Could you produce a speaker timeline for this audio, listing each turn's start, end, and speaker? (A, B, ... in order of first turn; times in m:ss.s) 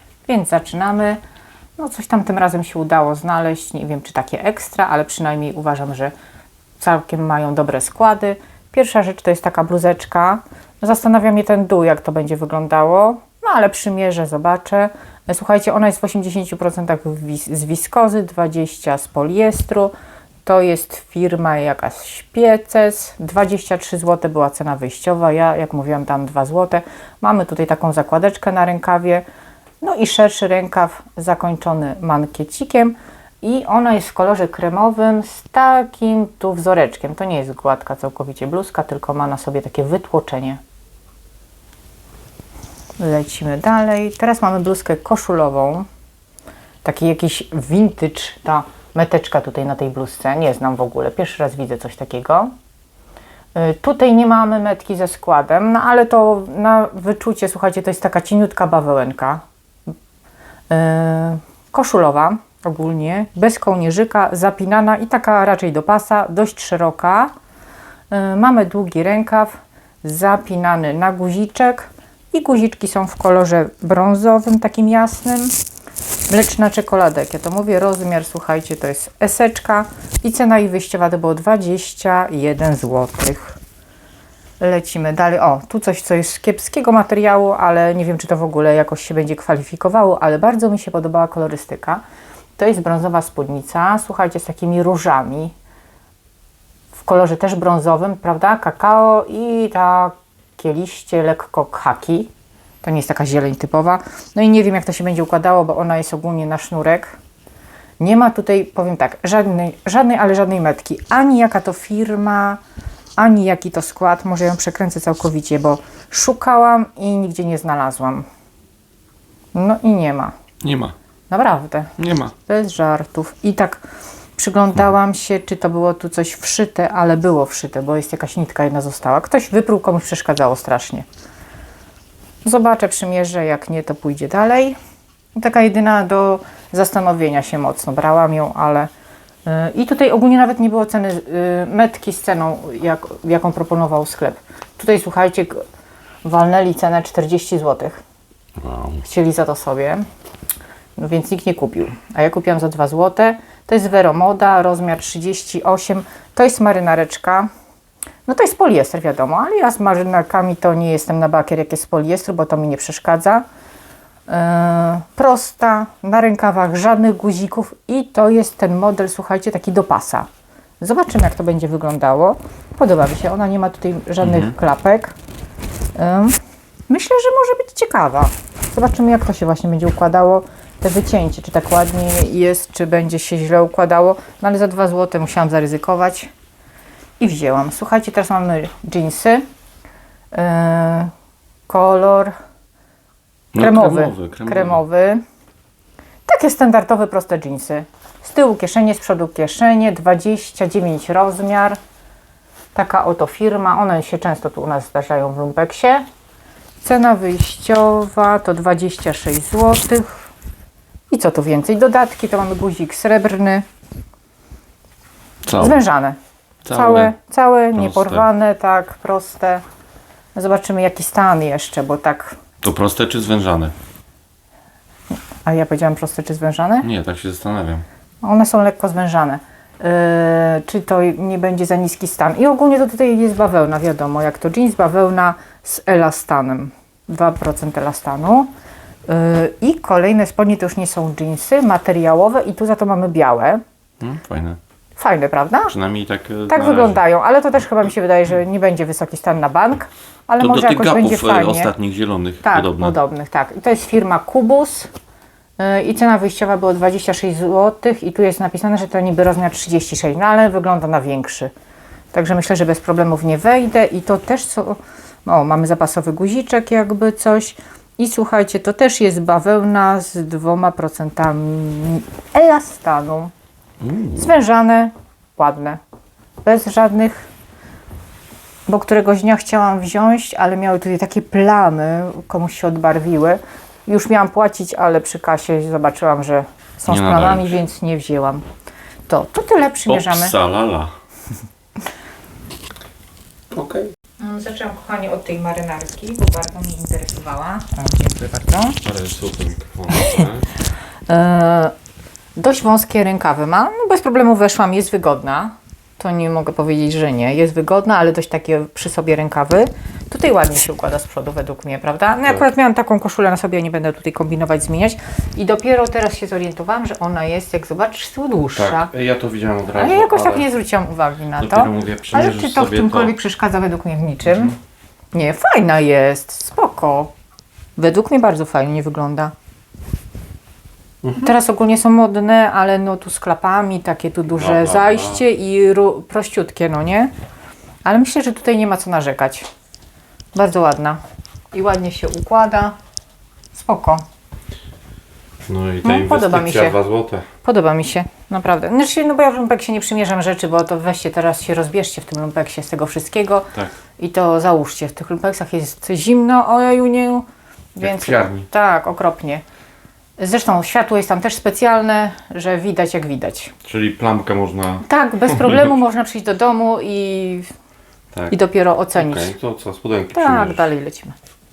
0:00.2-0:01.2 A
0:01.8-0:06.1 A
0:06.8-0:19.9 A
0:20.4-0:29.2 A
0:29.8-0:40.6 A
0:43.0-0:45.9 A
0:46.8-0:52.5 A
0:53.5-0:59.4 A
1:00.7-1:07.3 A
1:08.1-1:15.5 A
1:16.3-1:23.6 A
1:24.6-1:32.0 A
1:32.6-1:35.5 A
1:36.9-1:42.3 A
1:42.8-1:47.2 A
1:48.0-1:52.6 A
1:53.2-1:58.2 A
1:59.5-2:00.3 A
2:00.6-2:01.0 B
2:01.3-2:01.9 A
2:02.0-2:02.3 B
2:02.4-2:03.8 A
2:04.4-2:11.0 A
2:12.4-2:14.8 A
2:15.3-2:18.9 A
2:19.4-2:25.6 A
2:26.2-2:28.0 A
2:28.6-2:29.0 B
2:29.0-2:30.0 A
2:31.0-2:37.5 A
2:38.2-2:43.4 A
2:44.3-2:50.3 A
2:50.8-2:55.1 A
2:54.2-2:54.5 B
2:55.9-2:56.4 A
2:56.9-3:06.3 A
3:07.2-3:09.4 A
3:10.3-3:11.1 A
3:11.7-3:12.3 A
3:13.5-3:14.8 B
3:13.6-3:15.2 A
3:16.2-3:21.8 A
3:22.7-3:26.0 A
3:26.8-3:30.3 A
3:31.1-3:33.6 A
3:35.4-3:35.8 B
3:35.5-3:36.2 A
3:36.6-3:37.1 B
3:36.7-3:39.6 A
3:37.7-3:38.2 B
3:40.3-3:42.4 A
3:42.6-3:43.7 B
3:45.4-3:46.9 A
3:46.8-3:47.8 B
3:48.2-3:58.5 A
3:59.1-4:03.6 A
4:04.0-4:04.6 B
4:05.0-4:05.7 A
4:05.7-4:07.0 B
4:06.5-4:11.7 A
4:10.4-4:13.0 B
4:12.4-4:14.9 A
4:15.6-4:21.5 A
4:22.1-4:33.3 A
4:33.8-4:34.3 B
4:34.2-4:35.8 A
4:36.4-4:37.3 A
4:38.7-4:48.4 A
4:46.9-4:47.6 B
4:49.1-4:50.3 A
4:49.9-4:50.9 B
4:53.5-4:53.9 B
4:54.2-4:58.8 A
4:58.8-5:00.5 B
5:00.0-5:00.2 A
5:01.1-5:01.7 A
5:02.4-5:18.9 A
5:18.5-5:20.5 B
5:19.7-5:24.6 A
5:21.4-5:23.1 B
5:24.3-5:24.5 B
5:25.1-5:27.1 A
5:27.8-5:29.3 A
5:31.0-5:31.3 B
5:31.2-5:37.1 A
5:34.3-5:35.2 B
5:37.8-5:39.5 A
5:40.3-5:41.0 A
5:41.5-5:42.7 A
5:43.5-5:44.0 A
5:45.4-5:47.3 B
5:45.8-5:46.8 A
5:47.4-5:59.4 A
5:57.8-5:58.5 B
6:00.2-6:03.5 A
6:03.6-6:05.7 B
6:04.8-6:07.5 A
6:08.1-6:08.4 B
6:08.3-6:09.3 A
6:09.0-6:10.7 B
6:10.1-6:11.2 A